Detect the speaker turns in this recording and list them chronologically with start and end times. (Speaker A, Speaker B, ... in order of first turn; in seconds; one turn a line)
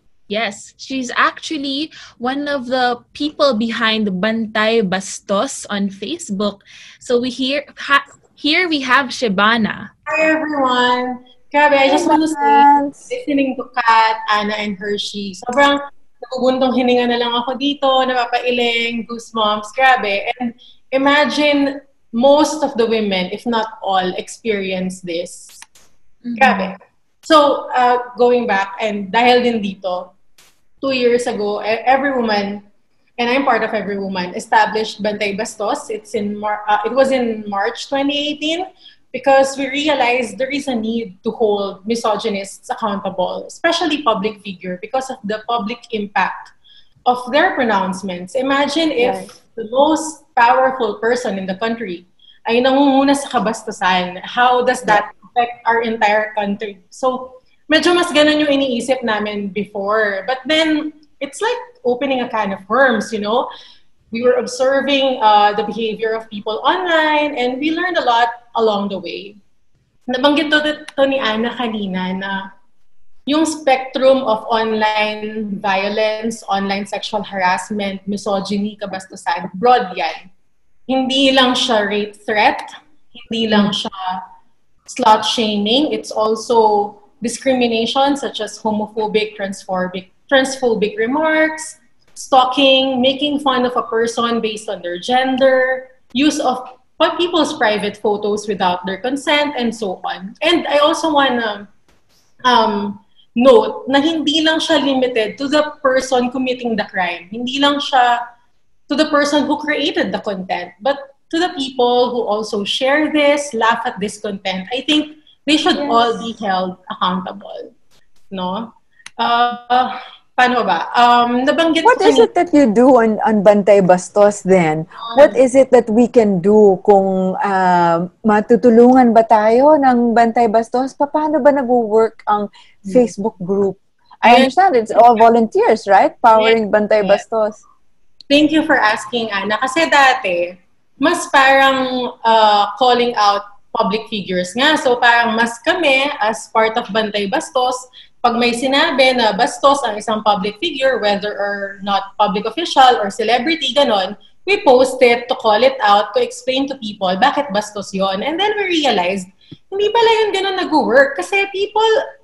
Speaker A: 0.3-9.9
Speaker B: 10.1-25.6
Speaker C: 11.9-13.1
Speaker A: 26.2-26.7
Speaker B: 26.4-30.1
Speaker B: 30.8-32.6
Speaker B: 33.2-46.5
Speaker B: 47.0-63.5
Speaker C: 49.0-49.3
Speaker B: 64.1-69.4
Speaker B: 70.1-72.5
Speaker B: 73.3-80.3
Speaker B: 80.9-84.2
Speaker B: 84.9-101.7
Speaker B: 102.4-108.2
Speaker B: 108.9-117.7
Speaker C: 115.7-116.2
Speaker B: 118.3-122.3
Speaker C: 121.8-137.6
Speaker B: 125.1-125.3
Speaker B: 134.2-134.5
Speaker B: 136.3-137.2
Speaker B: 138.3-161.9